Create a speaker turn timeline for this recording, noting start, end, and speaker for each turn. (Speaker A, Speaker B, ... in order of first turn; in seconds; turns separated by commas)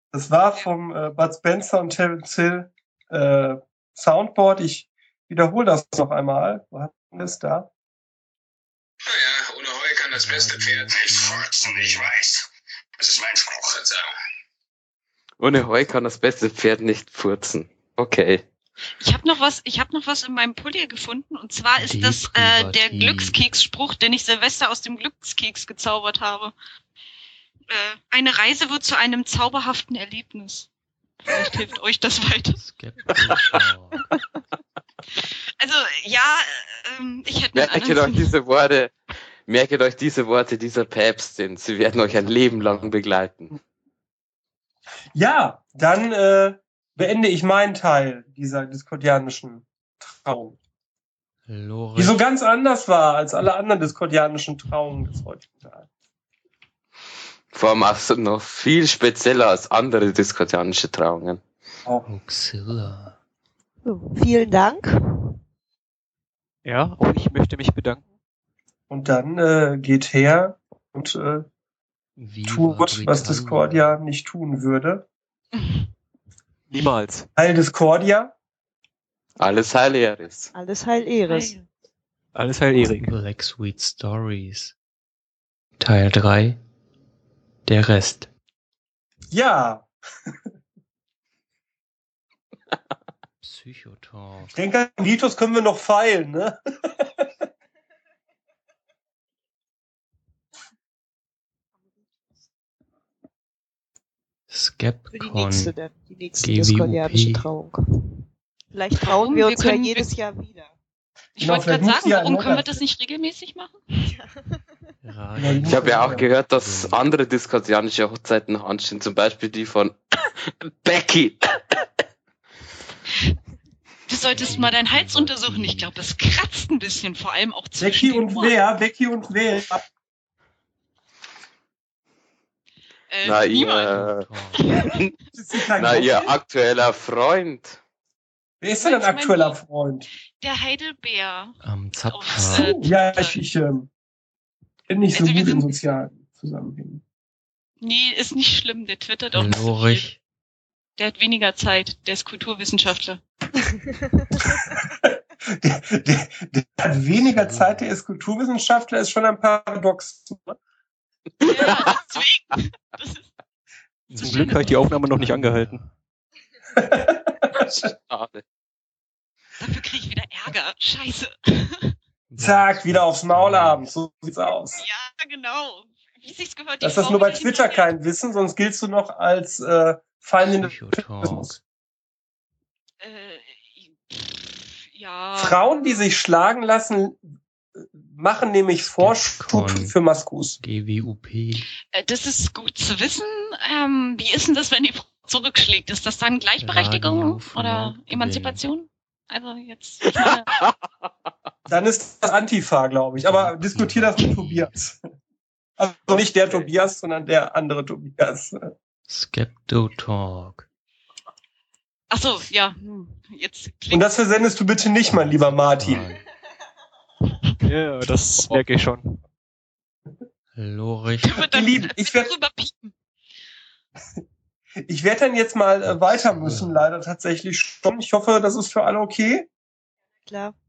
Speaker A: 0.1-7.7, Speaker B: 9.1-12.4, Speaker C: 10.1-12.1, Speaker B: 13.0-14.1, Speaker D: 15.4-18.4, Speaker E: 19.0-26.5, Speaker C: 21.8-23.4, Speaker E: 27.7-30.7, Speaker E: 31.2-32.6, Speaker C: 32.6-34.1, Speaker D: 33.2-33.5, Speaker E: 35.2-38.3, Speaker D: 37.5-43.5, Speaker C: 41.9-42.9, Speaker A: 45.1-50.6, Speaker C: 51.5-52.2, Speaker A: 52.0-55.9, Speaker D: 57.5-61.4, Speaker C: 62.0-63.2, Speaker F: 63.8-65.3, Speaker G: 66.6-68.0, Speaker A: 68.9-71.5, Speaker C: 72.2-73.9, Speaker A: 72.5-75.0, Speaker E: 75.5-75.8, Speaker G: 76.7-77.3, Speaker A: 77.4-78.3, Speaker D: 79.4-80.5, Speaker F: 80.5-81.5, Speaker E: 81.3-81.6, Speaker G: 82.3-83.1, Speaker C: 83.0-84.7, Speaker C: 85.8-86.6, Speaker C: 87.7-88.3, Speaker A: 89.3-89.9, Speaker C: 93.4-94.5, Speaker A: 94.5-97.2, Speaker C: 104.5-105.7, Speaker F: 105.1-107.8, Speaker C: 106.4-107.5, Speaker F: 108.7-110.7, Speaker E: 109.0-110.1, Speaker E: 111.4-113.7, Speaker A: 111.4-112.8, Speaker F: 114.0-114.4, Speaker C: 115.0-117.0, Speaker A: 115.4-116.3, Speaker D: 115.7-121.5, Speaker E: 124.1-128.6, Speaker C: 124.3-125.9, Speaker A: 127.8-129.8, Speaker E: 133.1-133.9, Speaker D: 133.2-134.2, Speaker C: 133.9-134.6, Speaker E: 134.5-135.0, Speaker D: 134.8-135.1, Speaker A: 135.3-136.3, Speaker D: 135.8-137.8, Speaker A: 138.6-140.1, Speaker E: 138.8-139.6, Speaker E: 140.4-143.4, Speaker C: 141.6-142.8, Speaker A: 142.4-143.9, Speaker A: 144.9-147.0, Speaker E: 145.1-145.7, Speaker E: 147.8-150.1, Speaker C: 149.3-150.2, Speaker E: 151.0-153.2, Speaker A: 154.4-160.5, Speaker C: 157.1-157.9, Speaker D: 161.4-162.0, Speaker E: 161.4-163.2, Speaker C: 164.1-165.9, Speaker E: 164.1-164.6, Speaker G: 164.2-165.8, Speaker A: 166.8-167.7, Speaker D: 167.5-168.4, Speaker E: 169.6-171.9, Speaker C: 172.3-173.9, Speaker A: 172.4-174.8, Speaker E: 174.8-177.9, Speaker A: 176.8-181.5, Speaker C: 180.4-181.6, Speaker E: 183.0-186.1, Speaker A: 185.3-187.2, Speaker A: 188.0-190.6, Speaker C: 188.8-189.9, Speaker C: 190.6-191.7, Speaker E: 191.9-200.5, Speaker C: 196.6-198.6, Speaker D: 200.2-200.8, Speaker A: 201.7-205.0, Speaker C: 203.1-204.8, Speaker A: 205.8-208.7, Speaker D: 206.4-206.7, Speaker C: 209.1-210.7, Speaker E: 212.1-214.1, Speaker A: 213.9-216.1, Speaker C: 215.1-216.2, Speaker G: 217.6-219.2, Speaker C: 220.5-221.4, Speaker E: 221.2-222.9, Speaker A: 221.5-222.3, Speaker A: 224.9-229.5, Speaker C: 225.8-226.9, Speaker F: 230.2-230.5